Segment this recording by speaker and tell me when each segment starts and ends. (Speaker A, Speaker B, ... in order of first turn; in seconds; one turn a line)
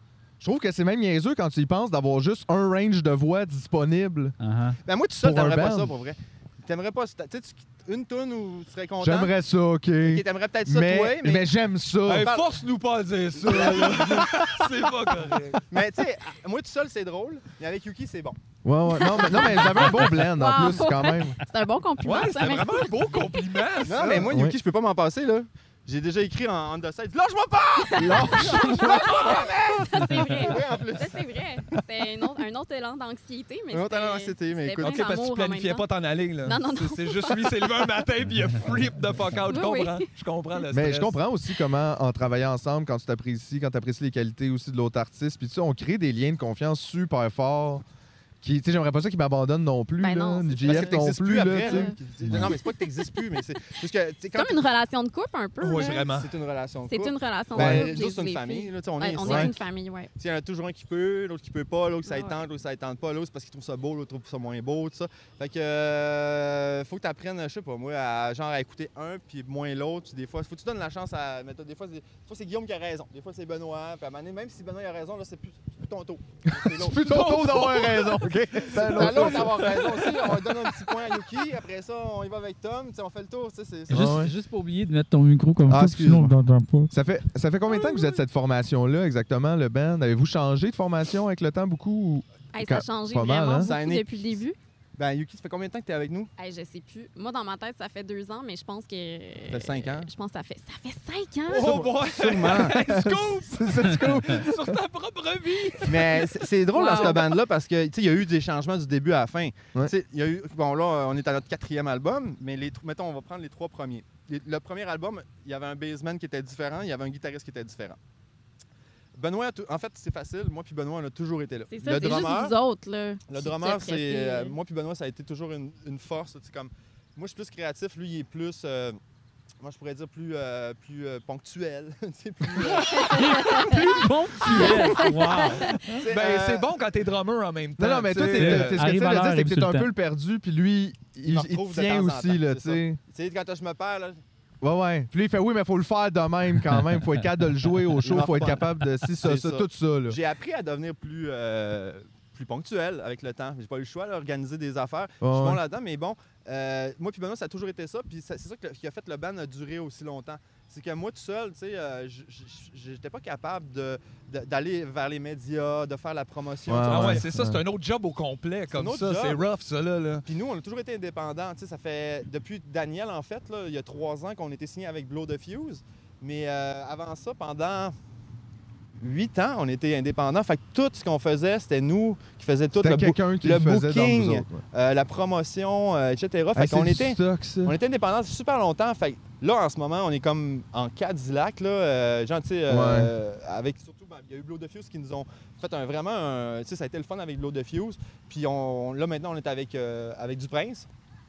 Speaker A: 0.4-4.3
Speaker B: 4.4-4.8
Speaker C: 4.8-9.3
Speaker A: 5.2-5.9
Speaker A: 9.0-12.3
Speaker C: 10.0-11.5
Speaker D: 12.1-15.6
Speaker C: 12.2-12.5
Speaker C: 13.4-14.6
Speaker C: 15.7-18.4
Speaker A: 18.6-21.4
Speaker E: 18.9-22.9
Speaker D: 22.0-24.3
Speaker C: 23.8-31.3
Speaker A: 24.0-24.6
Speaker A: 27.9-29.1
Speaker E: 27.9-35.9
Speaker C: 33.7-35.0
Speaker D: 34.8-41.2
Speaker E: 36.4-37.4
Speaker E: 39.5-40.1
Speaker A: 40.7-47.8
Speaker A: 48.4-52.5
Speaker E: 50.0-52.7
Speaker C: 50.6-54.6
Speaker E: 54.3-56.1
Speaker D: 55.6-56.3
Speaker C: 55.8-77.8
Speaker E: 56.9-60.1
Speaker A: 57.5-57.9
Speaker A: 59.2-59.5
Speaker E: 62.1-62.4
Speaker A: 76.5-80.9
Speaker D: 77.0-78.2
Speaker C: 78.5-84.2
Speaker D: 78.9-79.6
Speaker B: 83.9-86.9
Speaker A: 83.9-84.3
Speaker A: 85.7-86.3
Speaker A: 86.9-93.7
Speaker E: 87.7-88.2
Speaker E: 92.5-94.6
Speaker C: 93.5-94.4
Speaker C: 95.0-96.3
Speaker E: 96.4-101.7
Speaker C: 99.5-100.1
Speaker D: 101.5-106.3
Speaker C: 101.6-102.8
Speaker A: 102.7-104.8
Speaker C: 105.8-118.0
Speaker E: 106.7-107.3
Speaker C: 119.2-122.5
Speaker E: 121.7-124.5
Speaker C: 123.3-129.0
Speaker C: 129.6-133.2
Speaker B: 132.9-136.0
Speaker E: 132.9-133.8
Speaker E: 134.5-135.8
Speaker D: 134.5-138.8
Speaker C: 136.0-136.7
Speaker A: 137.8-143.0
Speaker B: 138.2-139.9
Speaker C: 141.2-144.2
Speaker A: 144.6-150.2
Speaker C: 148.0-167.2
Speaker A: 155.2-155.6
Speaker A: 166.7-167.6
Speaker D: 166.8-170.2
Speaker C: 168.7-169.4
Speaker C: 170.3-177.9
Speaker C: 179.0-200.9
Speaker A: 182.7-184.6
Speaker A: 186.5-187.8
Speaker A: 192.7-193.1